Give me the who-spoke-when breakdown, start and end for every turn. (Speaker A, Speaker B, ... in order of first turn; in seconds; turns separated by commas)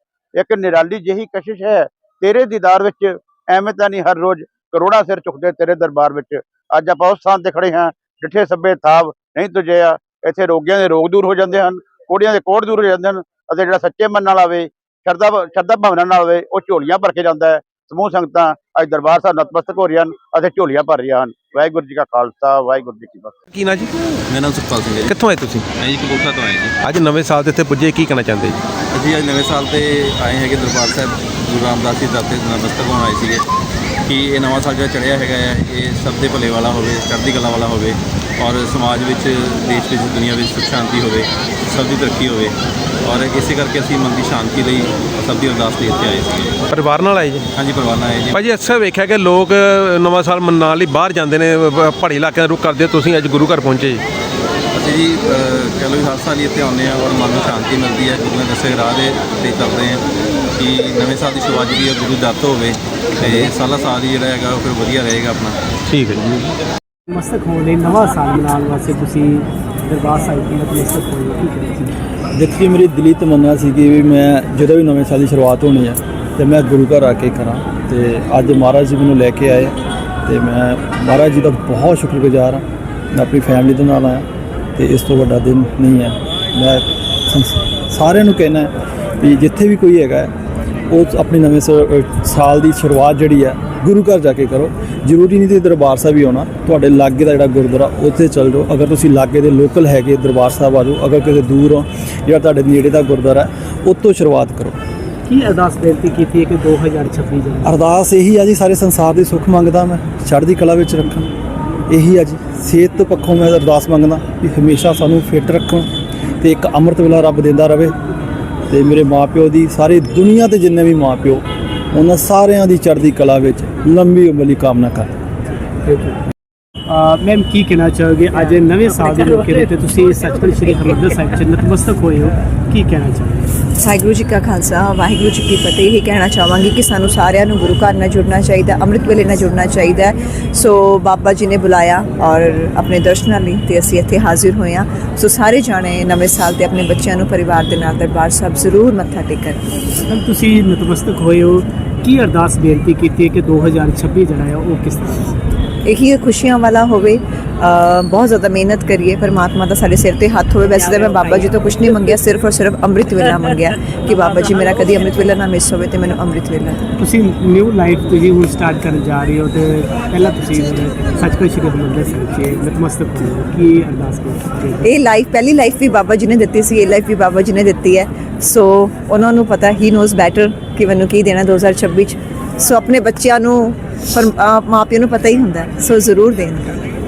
Speaker A: 0.3-23.4, Speaker B: 23.5-23.9, Speaker C: 24.3-25.1, Speaker B: 25.1-25.6, Speaker C: 25.8-26.8, Speaker B: 26.8-28.6, Speaker C: 28.9-33.4, Speaker C: 34.0-46.6, Speaker B: 46.7-47.4, Speaker C: 47.5-48.4, Speaker B: 48.4-54.0, Speaker C: 54.7-65.6, Speaker B: 65.9-66.5, Speaker D: 67.1-72.0, Speaker E: 72.3-90.3, Speaker E: 90.9-104.8, Speaker D: 105.3-107.9, Speaker E: 107.6-111.3, Speaker E: 111.9-115.9, Speaker E: 116.4-117.9, Speaker E: 118.7-125.1, Speaker D: 125.8-126.2, Speaker D: 126.9-133.5, Speaker F: 133.8-149.6, Speaker D: 150.0-155.4, Speaker F: 155.8-166.8, Speaker D: 167.0-174.9, Speaker F: 174.8-186.8